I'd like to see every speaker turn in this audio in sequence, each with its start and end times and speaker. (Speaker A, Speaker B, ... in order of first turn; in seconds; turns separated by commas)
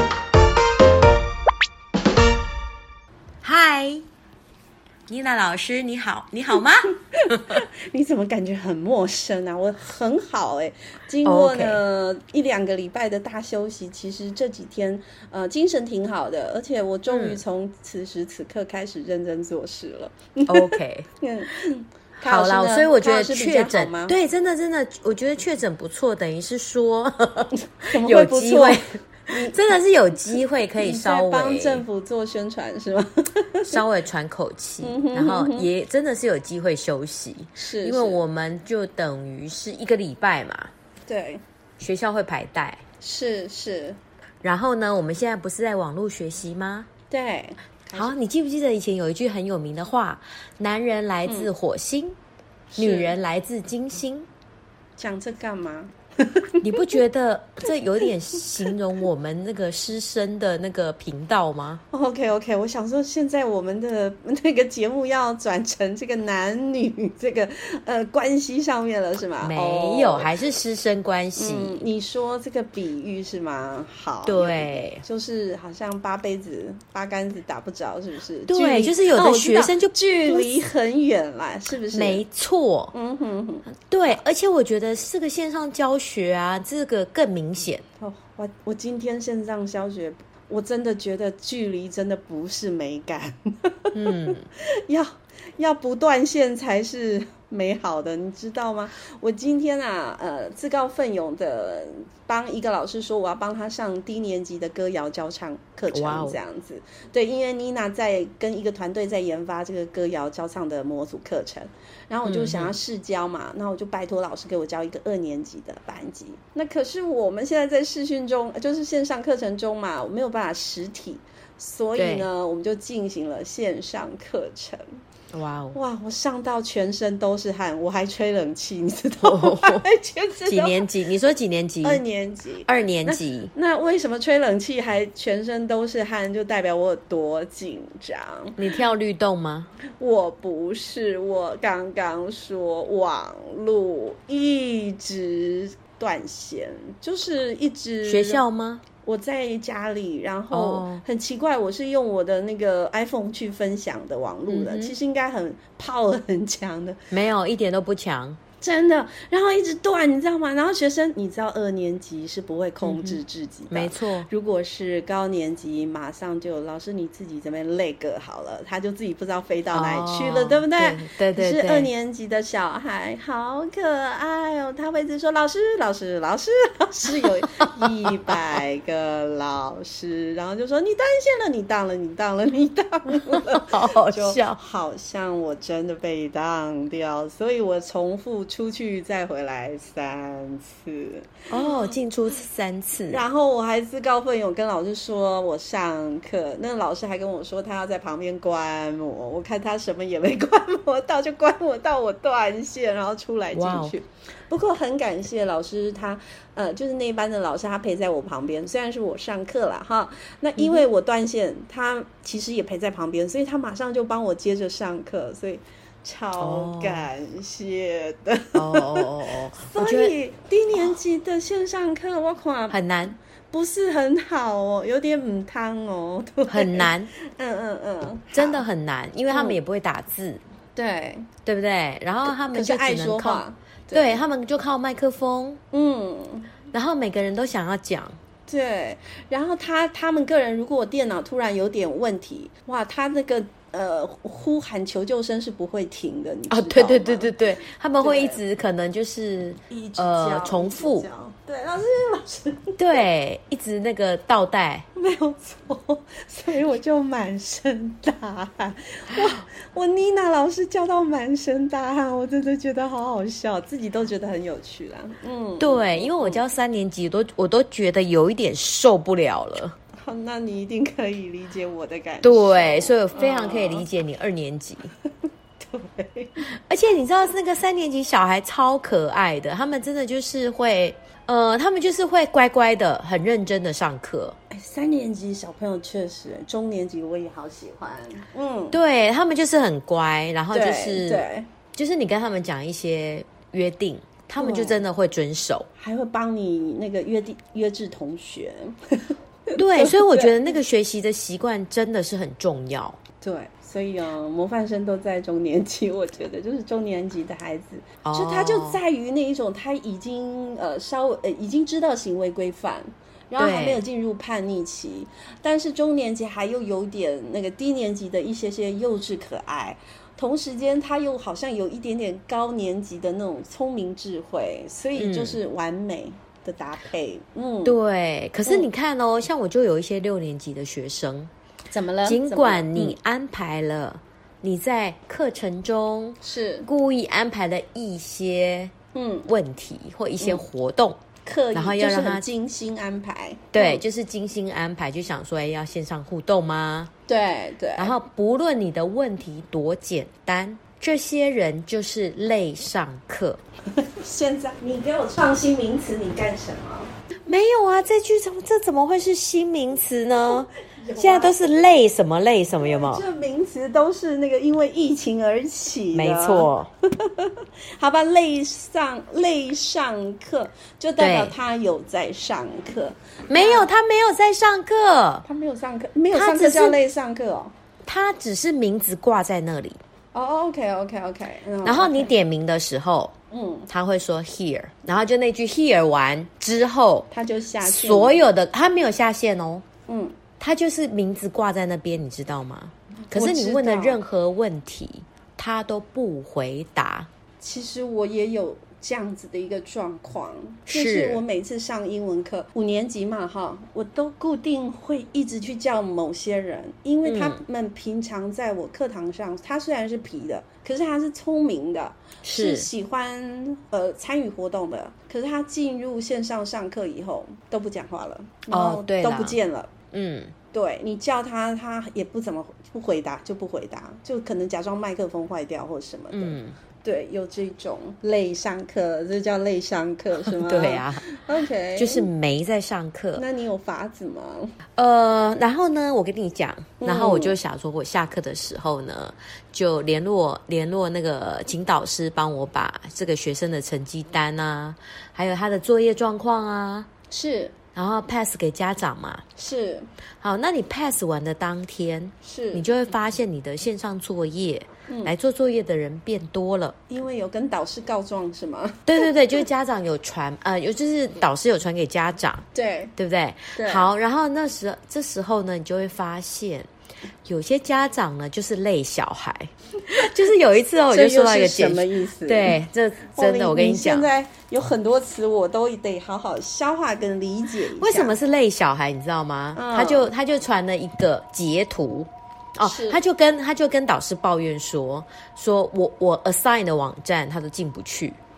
Speaker A: 3.4-4.0, Speaker A: 5.1-7.6, Speaker B: 7.2-24.1, Speaker A: 11.2-11.8, Speaker A: 17.1-17.4, Speaker A: 20.5-21.1, Speaker A: 22.2-31.8, Speaker B: 27.8-29.6, Speaker B: 30.8-33.8, Speaker A: 33.6-40.7, Speaker B: 34.8-35.7, Speaker B: 37.5-38.2, Speaker B: 41.1-41.4, Speaker A: 41.8-42.8, Speaker B: 43.0-44.0, Speaker A: 44.4-46.9, Speaker B: 47.1-48.1, Speaker A: 48.0-52.2, Speaker B: 52.7-53.1, Speaker A: 52.8-54.3, Speaker B: 55.0-56.8, Speaker A: 56.6-61.8, Speaker B: 61.9-70.3, Speaker A: 69.4-71.8, Speaker B: 71.4-82.2, Speaker A: 74.2-75.0, Speaker A: 78.5-80.5, Speaker A: 81.9-82.9, Speaker B: 82.9-83.7, Speaker A: 83.8-87.8, Speaker B: 88.0-124.8, Speaker A: 93.9-94.5, Speaker A: 105.9-106.4, Speaker A: 112.2-112.7, Speaker A: 122.0-122.3, Speaker A: 125.3-125.8, Speaker B: 125.7-130.9, Speaker A: 129.2-129.8, Speaker A: 130.4-132.0, Speaker B: 131.8-138.6, Speaker A: 132.7-133.5, Speaker A: 138.6-139.7, Speaker B: 140.0-148.4, Speaker A: 148.1-148.8, Speaker B: 149.0-157.0, Speaker A: 150.5-151.0, Speaker A: 154.5-154.9, Speaker A: 157.1-158.4, Speaker B: 158.6-191.8, Speaker A: 162.8-163.2, Speaker A: 163.7-164.3, Speaker A: 169.7-171.9, Speaker A: 183.3-184.6, Speaker A: 191.5-193.2, Speaker B: 193.1-222.8, Speaker A: 203.5-203.9, Speaker A: 210.6-210.9, Speaker A: 216.4-217.1, Speaker A: 218.5-220.1, Speaker A: 222.7-223.2, Speaker B: 223.5-228.6, Speaker A: 226.5-227.1, Speaker A: 228.3-230.4, Speaker B: 229.3-229.6, Speaker B: 230.8-231.3, Speaker A: 231.4-235.6, Speaker B: 232.2-234.2, Speaker B: 235.7-236.5, Speaker A: 236.7-238.2, Speaker B: 238.5-248.4, Speaker A: 246.5-251.1, Speaker B: 249.7-253.0, Speaker A: 252.8-254.8, Speaker B: 254.9-266.4, Speaker A: 265.6-269.8, Speaker B: 270.0-273.9, Speaker A: 272.2-274.9, Speaker B: 275.6-276.5, Speaker A: 276.5-284.4, Speaker B: 284.5-288.8, Speaker A: 288.7-295.7, Speaker B: 290.5-291.5, Speaker B: 294.4-294.8, Speaker B: 295.8-300.4, Speaker A: 299.6-303.0, Speaker B: 303.2-327.8, Speaker A: 308.0-308.8, Speaker A: 313.4-313.8, Speaker A: 325.0-325.4, Speaker A: 327.6-331.3, Speaker B: 331.7-332.9, Speaker A: 332.0-338.7, Speaker B: 336.2-336.7, Speaker B: 338.9-339.3, Speaker A: 339.3-341.0, Speaker B: 341.2-343.8, Speaker A: 341.5-342.2, Speaker A: 343.5-346.9, Speaker B: 347.1-347.9, Speaker A: 347.8-353.4, Speaker B: 353.8-356.9, Speaker A: 357.2-363.0, Speaker B: 360.6-361.6, Speaker B: 362.6-366.5, Speaker A: 365.9-366.7, Speaker B: 367.0-373.7, Speaker A: 371.0-371.3, Speaker A: 373.3-375.2, Speaker B: 375.2-377.5, Speaker A: 376.1-376.8, Speaker A: 377.8-379.8, Speaker B: 380.1-382.1, Speaker A: 381.6-383.1, Speaker B: 383.3-383.7, Speaker A: 383.7-387.1, Speaker B: 387.1-388.2, Speaker A: 387.6-389.6, Speaker B: 389.9-390.2, Speaker A: 390.4-397.1, Speaker B: 393.0-394.0, Speaker B: 397.4-419.7, Speaker A: 400.7-401.2, Speaker A: 407.0-407.4, Speaker A: 412.2-412.7, Speaker A: 418.5-419.4, Speaker A: 419.9-420.3, Speaker B: 420.5-432.1, Speaker A: 426.1-426.6, Speaker A: 430.2-431.0, Speaker A: 431.8-433.2, Speaker B: 433.1-434.5, Speaker A: 434.8-446.9, Speaker B: 436.8-437.4, Speaker B: 447.1-447.5, Speaker A: 447.7-449.2, Speaker B: 449.4-449.9, Speaker A: 450.2-456.8, Speaker B: 452.2-452.7, Speaker B: 454.9-455.1, Speaker B: 456.9-459.1, Speaker A: 458.9-462.4, Speaker B: 462.5-462.9, Speaker A: 462.9-466.7, Speaker B: 463.5-463.9, Speaker A: 467.2-474.1, Speaker B: 469.8-470.1, Speaker B: 470.9-472.6, Speaker B: 473.1-478.2, Speaker A: 477.8-488.2, Speaker B: 479.5-480.1, Speaker B: 482.6-483.0